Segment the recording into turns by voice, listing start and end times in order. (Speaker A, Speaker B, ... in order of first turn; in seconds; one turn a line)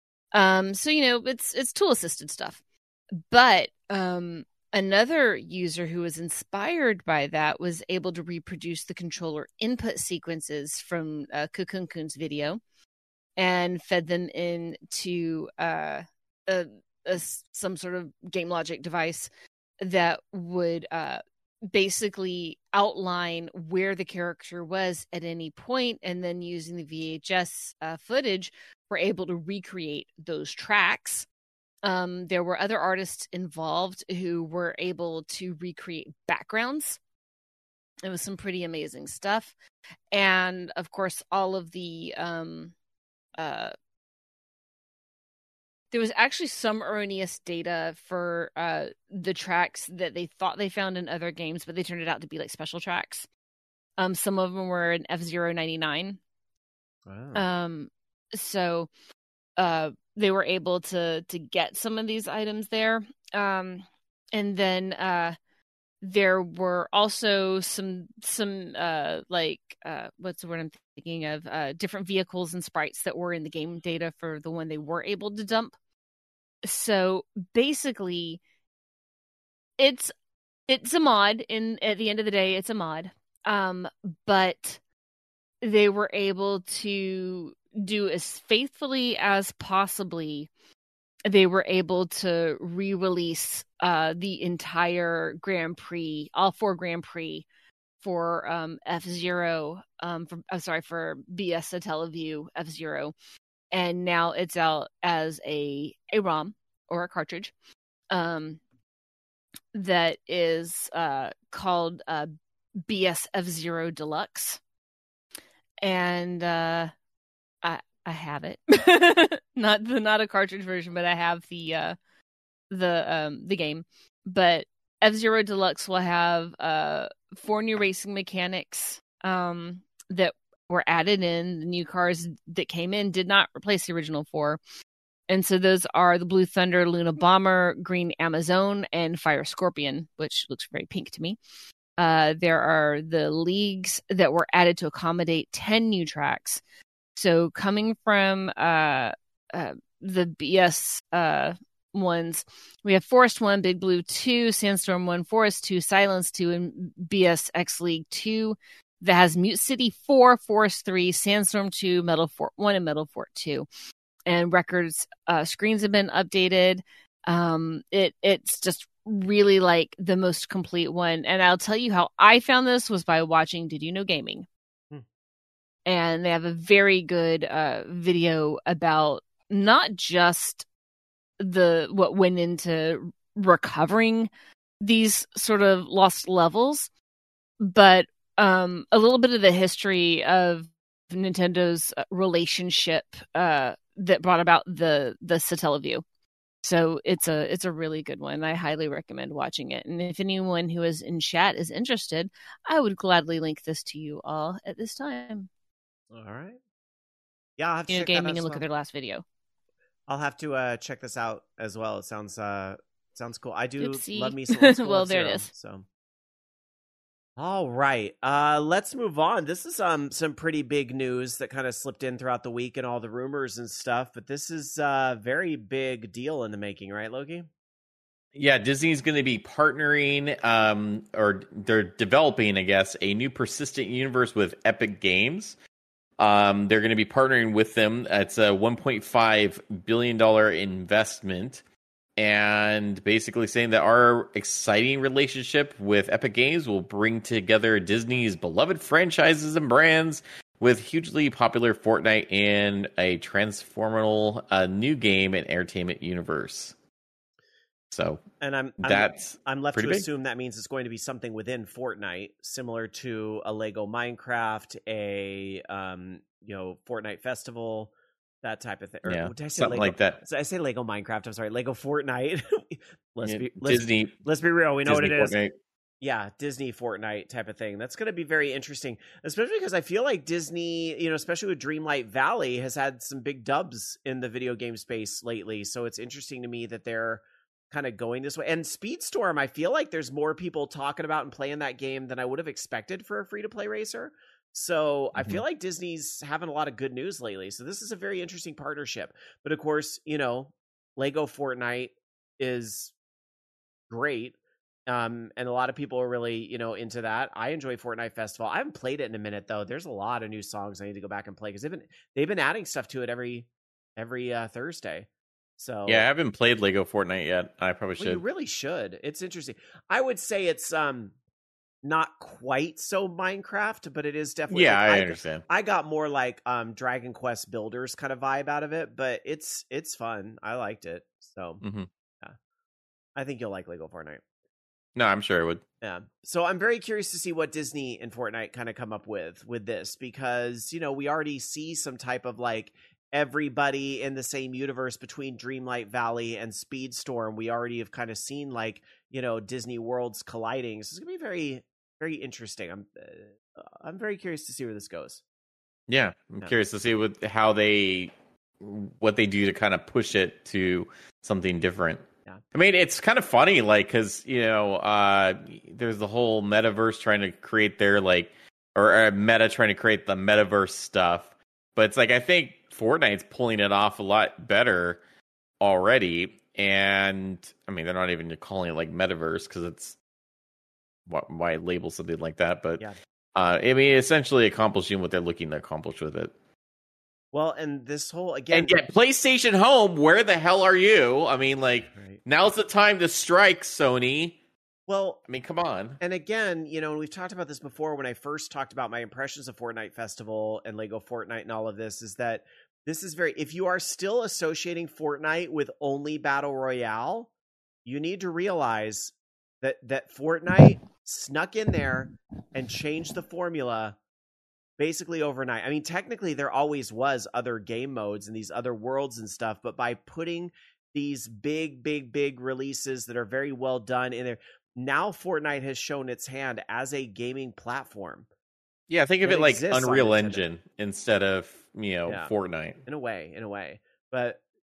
Speaker A: 0.3-2.6
Speaker A: 3.3-12.6
Speaker A: 13.4-19.3
Speaker A: 19.8-31.3
Speaker A: 31.9-37.0
Speaker A: 38.0-39.5
Speaker A: 40.1-42.7
Speaker A: 43.4-43.7
Speaker A: 45.9-53.3
Speaker A: 54.0-56.2
Speaker B: 57.1-57.4
Speaker A: 57.3-58.9
Speaker A: 59.6-65.3
Speaker A: 66.0-75.7
Speaker A: 76.6-78.4
Speaker A: 79.8-80.1
Speaker A: 80.7-84.8
Speaker A: 85.6-90.5
Speaker A: 91.3-97.5
Speaker A: 98.0-103.1
Speaker A: 103.7-107.5
Speaker A: 108.1-108.6
Speaker A: 109.7-112.3
Speaker A: 112.8-114.6
Speaker A: 115.8-116.9
Speaker A: 117.6-122.0
Speaker A: 122.7-134.6
Speaker A: 135.3-141.4
Speaker A: 142.0-146.6
Speaker A: 147.2-163.7
Speaker A: 164.3-174.5
Speaker A: 175.9-180.7
Speaker A: 181.4-184.3
Speaker A: 184.8-186.9
Speaker A: 187.6-196.0
Speaker A: 196.6-205.5
Speaker B: 206.1-206.6
Speaker B: 207.6-208.6
Speaker A: 207.9-209.2
Speaker B: 210.1-215.9
Speaker A: 213.8-215.5
Speaker B: 217.4-227.5
Speaker C: 228.3-235.6
Speaker C: 236.2-241.6
Speaker C: 242.2-256.7
Speaker C: 257.9-258.2
Speaker B: 258.4-267.9
Speaker C: 258.8-260.1
Speaker B: 268.4-275.4
Speaker C: 269.1-270.2
Speaker C: 273.2-274.1
Speaker C: 274.9-275.5
Speaker B: 276.0-302.9
Speaker C: 295.2-295.4
Speaker B: 303.9-304.4
Speaker B: 304.9-316.1
Speaker C: 315.9-318.2
Speaker B: 318.0-321.1
Speaker B: 321.8-331.6
Speaker C: 324.5-325.4
Speaker C: 331.6-331.9
Speaker B: 333.2-334.2
Speaker C: 335.0-335.6
Speaker B: 335.8-355.2
Speaker C: 355.9-362.0
Speaker C: 362.5-375.0
Speaker C: 375.6-380.0
Speaker C: 381.1-382.8
Speaker C: 383.4-386.3
Speaker B: 387.3-388.8
Speaker C: 388.5-394.4
Speaker B: 391.9-392.2
Speaker B: 394.9-395.2
Speaker C: 395.3-396.0
Speaker B: 396.0-407.3
Speaker B: 407.9-414.0
Speaker B: 414.8-428.3
Speaker C: 428.9-432.8
Speaker B: 429.2-430.4
Speaker B: 432.9-434.4